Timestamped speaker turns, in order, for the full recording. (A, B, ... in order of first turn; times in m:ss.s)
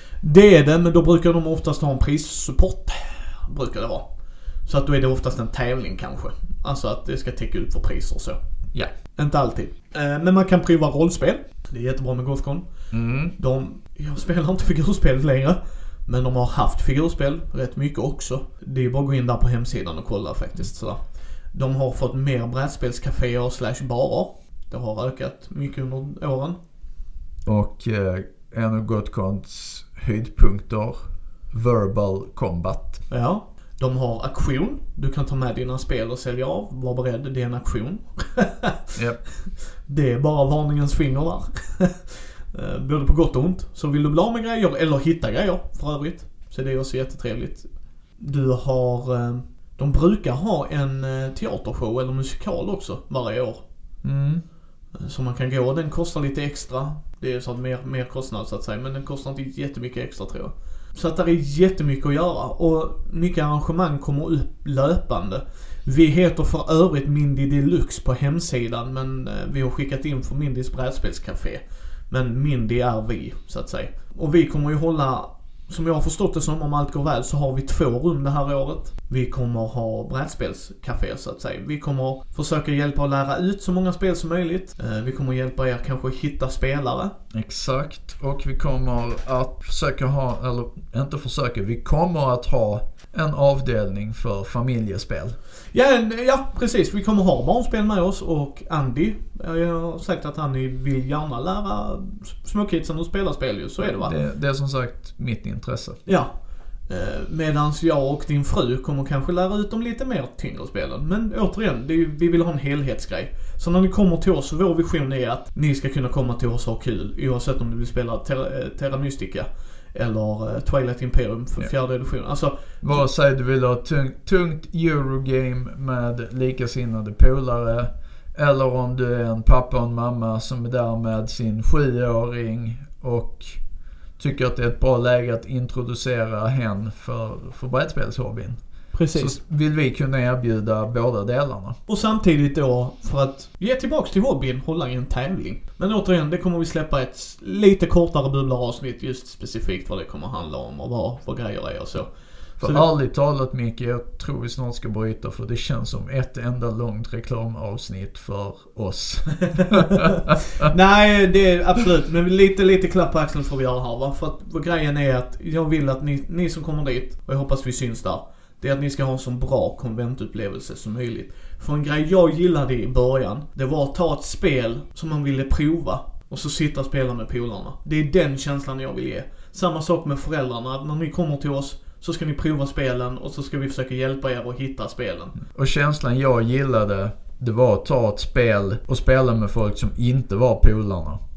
0:00.2-0:04.1 A
0:04.6-0:08.4 A
0:09.0-0:12.7 A
0:12.9-0:13.3 B
0:13.3-0:26.6 A
0:27.4-0:33.0 B
0:33.1-0:53.6 A
0:38.9-0:39.2 B
0:54.0-0:54.4 B
0:55.0-1:27.1 A
1:27.3-1:35.4 B
1:35.7-1:44.1 A
1:43.8-1:46.0 B
1:46.0-1:46.3 A
1:46.9-2:03.0 A
2:02.8-2:13.6 B
2:14.2-2:18.6 B
2:18.9-2:19.4 A
2:19.1-2:21.8 B
2:21.9-2:32.8 A
2:32.6-2:40.4 B
2:39.5-3:05.4 A
3:05.5-3:11.2 B